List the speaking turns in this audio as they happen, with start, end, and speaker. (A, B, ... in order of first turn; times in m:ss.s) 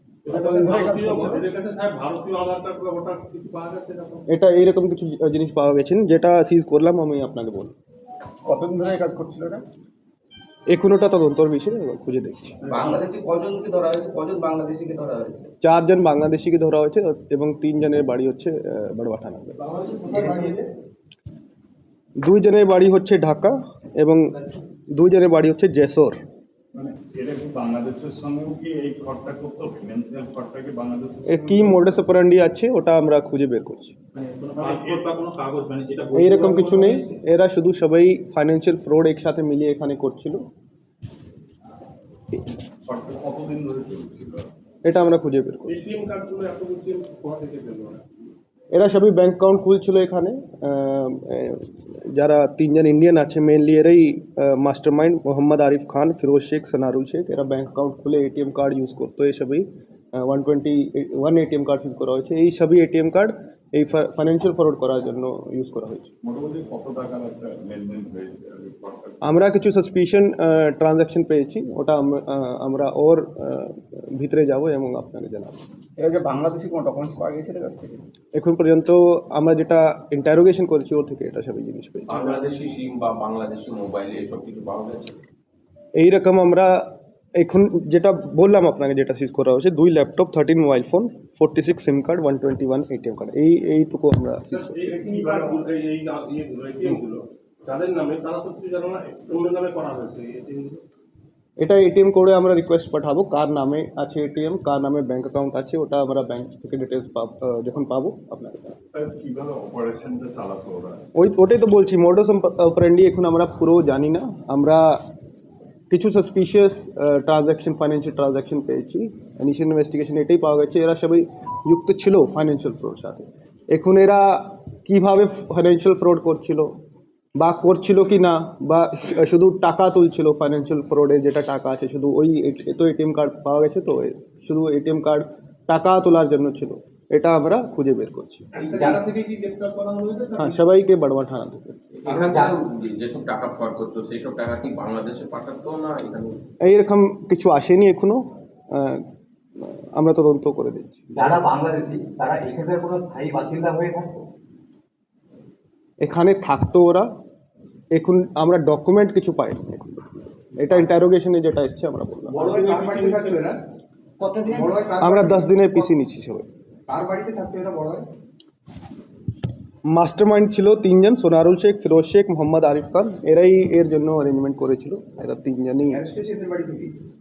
0:00.3-0:04.2 A
0:00.3-0:01.4 B
0:04.3-0:07.7 C
0:08.4-0:09.6 B
0:10.7-0:12.6 C
0:12.6-0:15.5 D
0:15.6-0:19.6 C
0:19.8-0:20.7 D
0:20.1-0:20.5 B
0:22.2-0:24.4 C
0:24.9-0:26.2 C
0:26.8-0:32.0 E
0:31.3-0:34.0 C
0:34.2-0:37.1 A
0:34.6-0:35.1 E
0:36.1-0:40.4 C
0:42.9-0:44.5 E
0:44.8-0:45.8 C
0:45.7-0:48.0 A
0:48.7-1:06.1 C
1:06.2-1:09.2 E
1:09.2-1:15.6 C
1:16.0-1:18.0 B
1:18.4-1:22.2 C
1:22.1-1:25.2 F
1:26.0-1:34.9 C
1:34.5-1:40.8 A
1:41.6-1:48.8 C
1:48.9-1:51.1 E
1:51.2-1:55.0 C
1:55.9-2:06.7 C
2:07.4-2:18.5 C
2:18.6-2:20.6 A
2:18.7-2:19.0 D
2:20.4-2:21.8 C
2:22.0-2:22.6 D
2:22.0-2:26.4 F
2:26.6-2:29.1 C
2:29.6-2:31.0 C
2:31.1-2:34.3 D
2:36.0-2:37.1 C
2:37.9-2:42.6 C
2:42.3-2:43.6 D
2:42.6-2:43.4 A
2:42.7-2:43.2 B
2:44.2-2:45.8 B
2:45.0-2:46.5 C
2:46.9-2:48.1 B
2:49.9-2:56.0 C
2:56.0-2:57.0 B